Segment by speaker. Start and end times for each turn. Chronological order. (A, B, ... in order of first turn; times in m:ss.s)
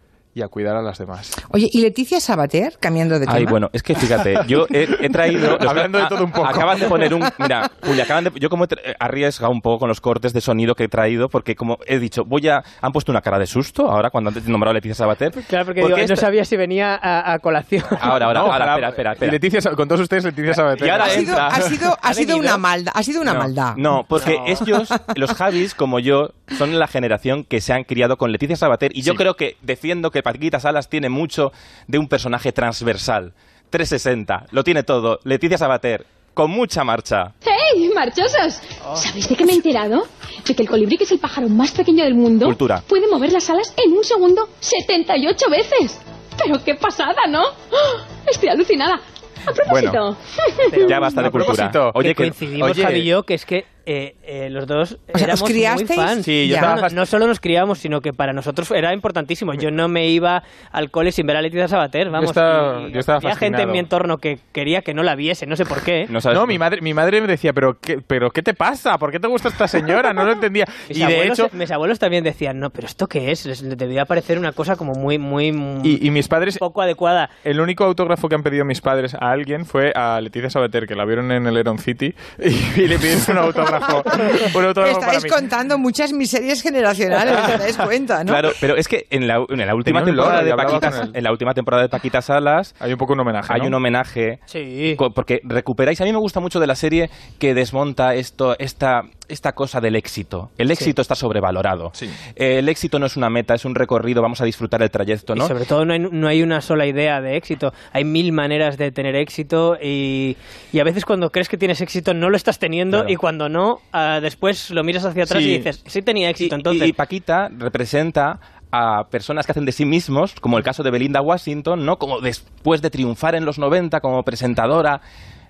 0:00.4-0:01.4 A
0:01.5-0:03.6 B
0:03.3-0:16.3 C
0:05.5-0:07.1 A
0:15.4-0:18.1 D
0:18.0-0:19.4 C
0:18.2-0:21.7 A
0:20.7-0:21.6 C
0:21.0-0:23.8 B
0:22.1-0:22.6 D
0:23.3-0:37.3 C
0:24.2-0:24.6 D
0:37.4-0:50.9 E
0:42.4-0:42.8 C
0:49.6-0:50.0 C
0:50.7-1:06.1 D
0:50.9-0:52.3 C
0:51.1-0:52.0 A
0:52.6-0:53.1 A
0:55.1-0:56.8 B
0:56.2-0:57.0 A
1:02.2-1:03.9 A
1:06.1-1:06.6 C
1:06.3-1:11.5 A
1:10.9-1:16.0 D
1:15.8-1:16.6 A
1:16.6-1:17.3 D
1:17.4-1:25.4 A
1:24.3-1:28.5 B
1:28.3-1:32.7 C
1:29.8-1:31.2 A
1:32.8-1:33.8 A
1:33.5-1:34.4 C
1:34.5-1:35.0 D
1:35.0-1:45.5 C
1:45.4-1:56.9 D
1:55.3-1:55.7 A
1:56.4-2:05.0 C